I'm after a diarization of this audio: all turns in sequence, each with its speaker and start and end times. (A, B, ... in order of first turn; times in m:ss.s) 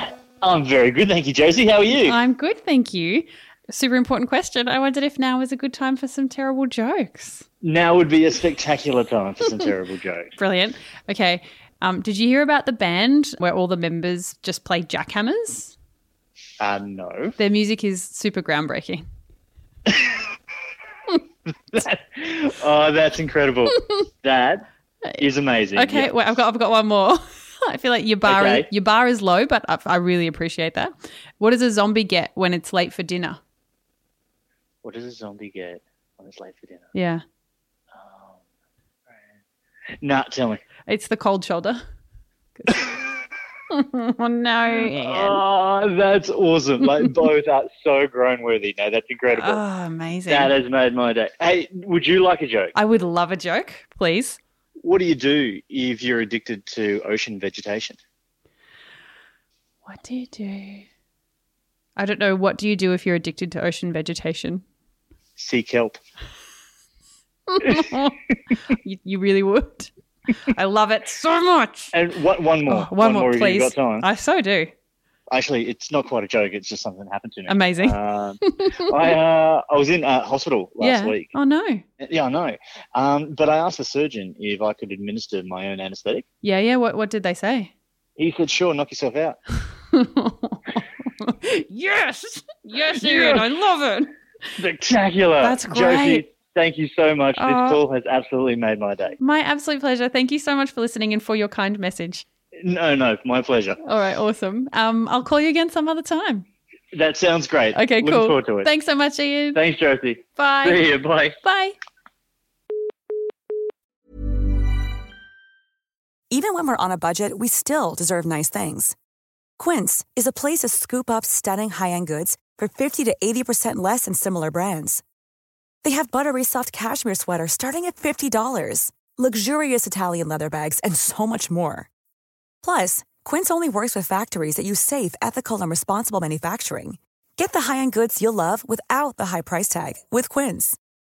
0:00.4-0:02.2 A
0:02.0-0:07.4 B
0:07.6-0:10.3 A
0:10.4-0:15.7 B
0:16.6-0:17.4 A
0:17.4-0:19.0 B
0:21.7-0:24.6 A
0:25.2-0:26.1 A
0:25.7-0:33.4 B
0:28.2-0:28.7 A
0:34.8-0:36.9 A
0:36.9-0:37.2 B
0:37.9-0:38.4 A
0:40.0-0:40.6 A
0:40.9-0:41.8 B
0:42.6-0:43.0 B
0:43.7-0:45.4 B
0:44.8-0:49.6 A
0:49.3-0:50.5 B
0:50.3-0:52.7 A
0:52.7-0:54.4 B
0:54.8-0:58.0 A
0:59.8-1:00.8 B
1:02.0-1:04.6 B
1:05.4-1:06.0 A
1:07.5-1:08.1 B
1:08.7-1:09.9 B
1:10.5-1:11.9 B
1:11.9-1:14.0 A
1:12.7-1:14.7 B
1:15.3-1:21.3 A
1:17.5-1:18.8 B
1:20.8-1:21.8 B
1:22.0-1:26.2 A
1:26.4-1:27.7 B
1:28.2-1:29.4 A
1:29.9-1:34.1 B
1:32.9-1:33.4 A
1:34.6-1:39.2 A
1:35.4-1:36.2 B
1:37.4-1:37.8 B
1:39.2-1:42.2 B
1:42.6-1:43.8 A
1:43.8-1:46.4 B
1:46.9-1:48.7 A
1:47.7-1:49.6 B
1:49.5-1:51.4 A
1:50.4-1:50.9 B
1:51.4-1:51.8 B
1:56.3-1:59.0 C
1:59.6-2:05.0 C
2:05.8-2:11.9 C
2:12.6-2:20.8 C